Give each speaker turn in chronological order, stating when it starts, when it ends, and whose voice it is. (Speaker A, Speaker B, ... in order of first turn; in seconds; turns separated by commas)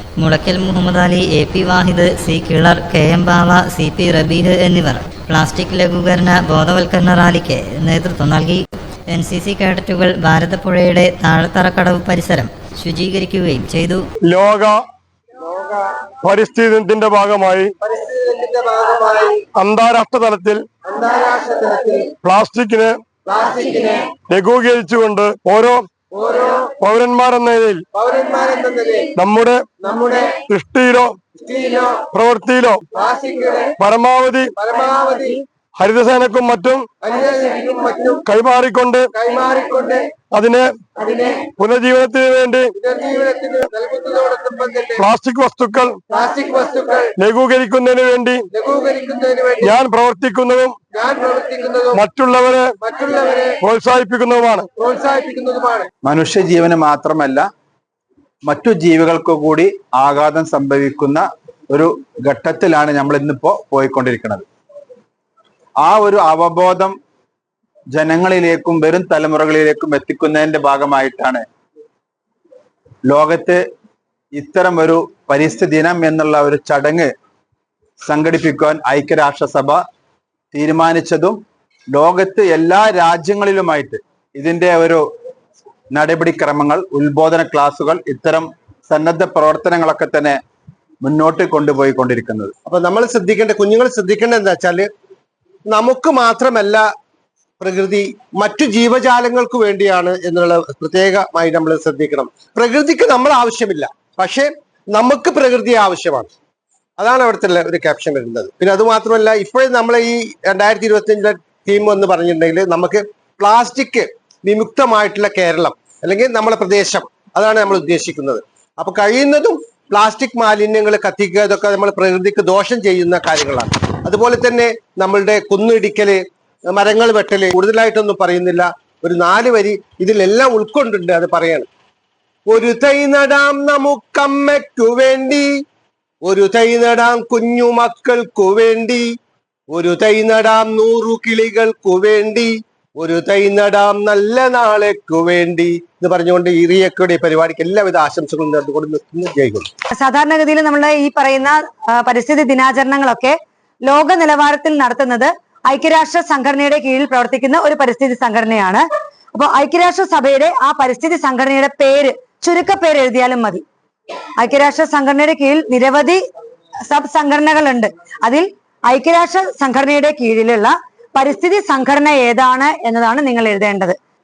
Speaker A: 0.2-14.1, Speaker B: 14.2-14.8, Speaker B: 16.2-17.7, Speaker C: 17.9-19.4, Speaker B: 19.6-20.6, Speaker C: 20.9-22.1, Speaker B: 22.2-23.0, Speaker C: 23.4-24.1, Speaker B: 24.2-25.9, Speaker C: 26.3-26.6, Speaker B: 26.7-27.9, Speaker C: 28.1-29.1, Speaker B: 29.1-29.7, Speaker C: 29.9-30.4, Speaker B: 30.4-31.2, Speaker C: 31.5-32.0, Speaker B: 32.0-32.9, Speaker C: 33.1-33.6, Speaker B: 33.7-34.6, Speaker C: 34.7-35.3, Speaker B: 35.8-36.9, Speaker C: 37.1-38.1, Speaker B: 38.2-39.1, Speaker C: 39.4-40.0, Speaker B: 40.3-40.7, Speaker B: 41.4-42.7, Speaker C: 42.9-44.9, Speaker B: 45.0-46.0, Speaker C: 46.3-47.0, Speaker B: 47.1-48.5, Speaker C: 48.6-49.6, Speaker B: 49.6-50.8, Speaker C: 51.1-51.9, Speaker B: 51.9-52.8, Speaker C: 52.9-53.5, Speaker B: 53.6-54.7, Speaker C: 54.9-55.8, Speaker D: 56.0-57.4, Speaker D: 58.4-64.5, Speaker D: 65.8-67.0, Speaker D: 67.9-71.4, Speaker D: 73.1-73.6, Speaker D: 74.3-77.1, Speaker D: 78.0-79.8, Speaker D: 80.5-81.4, Speaker D: 81.9-85.0, Speaker D: 85.9-90.4, Speaker D: 91.0-92.5, Speaker C: 92.7-94.9, Speaker C: 95.7-96.8, Speaker C: 97.6-106.3, Speaker C: 107.0-131.7, Speaker C: 132.5-135.6, Speaker C: 136.2-139.1, Speaker C: 139.7-149.7, Speaker E: 149.9-163.6, Speaker E: 164.4-166.2, Speaker E: 166.9-174.0